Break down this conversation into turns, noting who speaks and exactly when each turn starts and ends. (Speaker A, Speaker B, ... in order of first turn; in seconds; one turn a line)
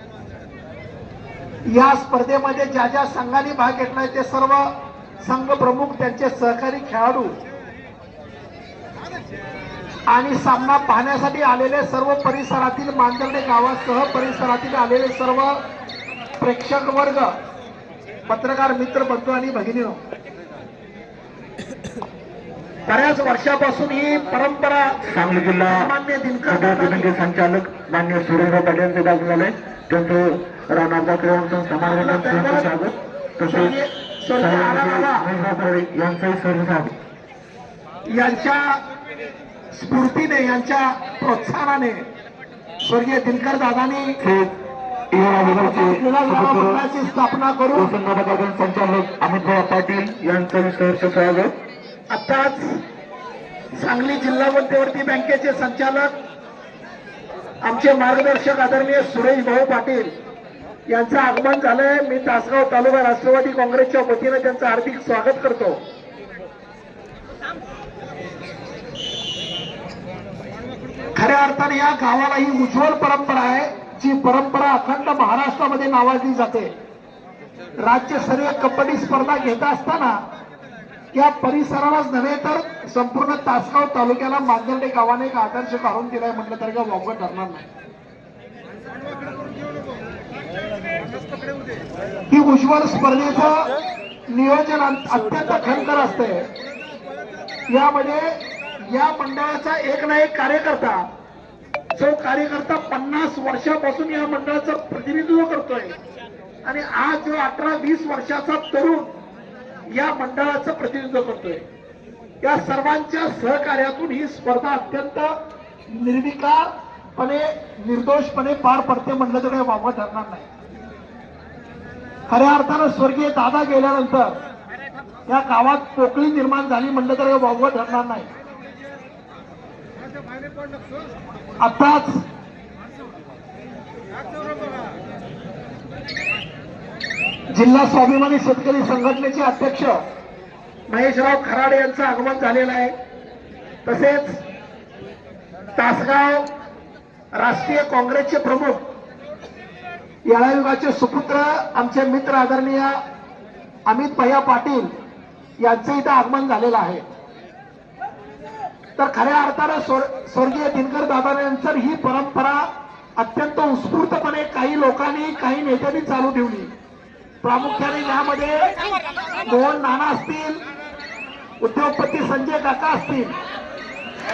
Speaker A: 1.7-7.3
Speaker A: 10.1-15.6
Speaker A: 16.4-17.3
Speaker A: 18.3-20.0
Speaker A: 22.9-25.0
Speaker B: 25.1-25.9
Speaker A: 25.7-27.1
Speaker B: 26.4-33.8
Speaker A: 31.9-32.7
Speaker A: 33.5-35.2
Speaker B: 34.3-36.9
Speaker A: 38.1-38.8
Speaker A: 39.7-42.0
Speaker A: 42.8-44.2
Speaker B: 44.2-44.5
Speaker B: 45.1-46.8
Speaker A: 45.4-47.9
Speaker B: 47.7-51.5
Speaker A: 52.1-52.8
Speaker A: 53.7-56.1
Speaker A: 57.6-60.1
Speaker A: 60.9-65.8
Speaker A: 71.1-76.7
Speaker A: 77.8-80.2
Speaker A: 81.1-87.7
Speaker A: 92.3-93.7
Speaker A: 94.3-96.5
Speaker A: 97.7-101.1
Speaker A: 101.9-106.0
Speaker A: 106.6-109.1
Speaker A: 109.9-111.6
Speaker A: 112.4-115.3
Speaker A: 115.9-120.5
Speaker A: 122.3-124.4
Speaker A: 125.3-128.3
Speaker A: 131.6-132.2
Speaker A: 137.5-140.0
Speaker A: 140.9-142.9
Speaker A: 143.8-144.4
Speaker A: 145.8-146.4
Speaker A: 147.3-148.8
Speaker A: 150.2-153.0
Speaker A: 153.8-154.9
Speaker A: 155.6-157.0
Speaker A: 159.0-166.7
Speaker A: 167.4-168.8
Speaker A: 169.4-170.6
Speaker A: 171.6-173.4